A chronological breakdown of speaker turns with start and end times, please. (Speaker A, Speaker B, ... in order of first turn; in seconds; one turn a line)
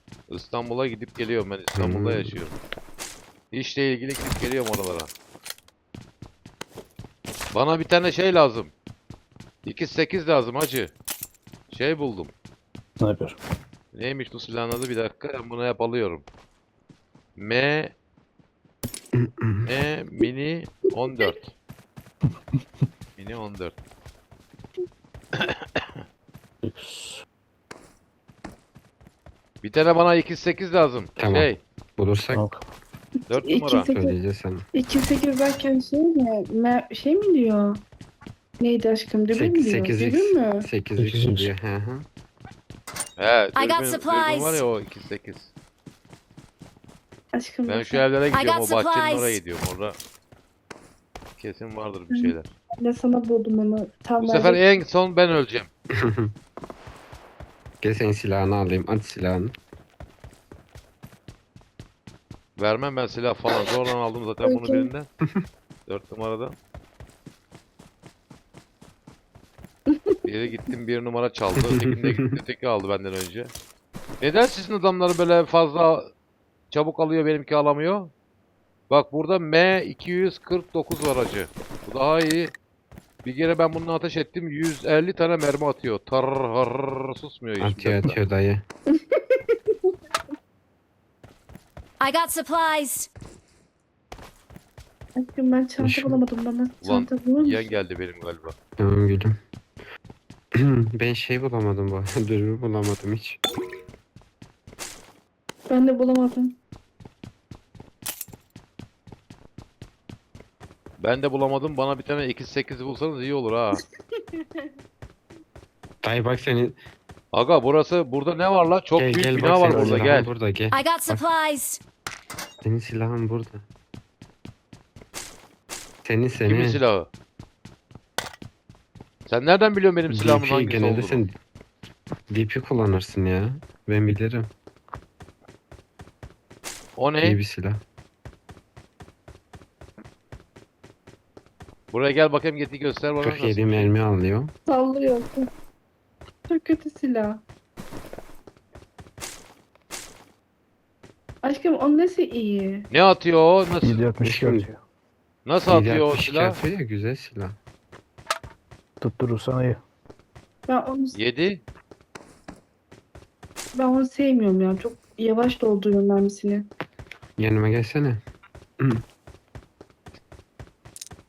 Speaker A: 0.3-2.5
Speaker B: 1.8-2.4
Speaker A: 3.5-5.1
Speaker A: 7.5-8.7
Speaker A: 9.6-10.9
Speaker A: 11.7-12.3
Speaker C: 13.0-13.4
Speaker A: 13.9-16.2
Speaker A: 17.4-17.9
Speaker B: 19.1-19.7
Speaker A: 19.6-21.5
Speaker C: 22.3-22.9
Speaker A: 23.2-23.7
Speaker A: 25.4-25.8
Speaker B: 26.6-27.0
Speaker A: 29.6-31.6
Speaker B: 31.2-32.4
Speaker C: 32.3-32.6
Speaker A: 33.3-33.9
Speaker D: 33.3-34.1
Speaker B: 33.9-34.6
Speaker D: 34.7-37.8
Speaker D: 38.6-40.6
Speaker B: 39.3-42.1
Speaker C: 41.0-41.5
Speaker A: 43.2-45.5
Speaker E: 43.5-44.6
Speaker D: 47.3-48.1
Speaker A: 47.7-50.0
Speaker E: 48.3-49.4
Speaker A: 51.4-52.5
Speaker D: 52.1-54.6
Speaker A: 54.2-55.7
Speaker B: 56.0-56.3
Speaker B: 57.8-59.5
Speaker A: 62.6-65.1
Speaker D: 64.4-64.9
Speaker A: 65.9-66.5
Speaker D: 69.9-70.2
Speaker A: 70.2-73.5
Speaker B: 71.6-72.2
Speaker A: 74.2-76.1
Speaker A: 76.7-78.1
Speaker A: 78.9-82.5
Speaker A: 83.2-88.2
Speaker B: 87.6-88.7
Speaker D: 88.9-89.9
Speaker E: 92.0-93.1
Speaker D: 95.2-97.8
Speaker B: 95.8-96.2
Speaker A: 96.8-98.6
Speaker B: 98.8-99.4
Speaker B: 100.5-103.4
Speaker D: 105.7-106.6
Speaker A: 111.0-113.8
Speaker D: 114.2-114.7
Speaker B: 116.0-116.8
Speaker A: 117.3-120.3
Speaker B: 119.0-121.2
Speaker C: 119.6-120.2
Speaker E: 120.7-121.8
Speaker B: 122.6-123.6
Speaker B: 126.0-126.8
Speaker A: 126.4-127.1
Speaker A: 129.3-131.2
Speaker B: 130.1-131.4
Speaker B: 132.3-134.5
Speaker A: 137.0-137.4
Speaker B: 137.2-137.8
Speaker A: 141.9-143.9
Speaker B: 143.2-144.5
Speaker D: 144.7-145.5
Speaker D: 146.5-147.4
Speaker D: 151.4-152.9
Speaker A: 152.9-154.1
Speaker C: 153.8-154.8
Speaker B: 154.2-154.7
Speaker A: 155.4-156.6
Speaker B: 155.7-157.6
Speaker C: 159.0-159.8
Speaker D: 160.7-161.2
Speaker A: 161.1-161.6
Speaker D: 163.7-166.7
Speaker B: 167.4-168.2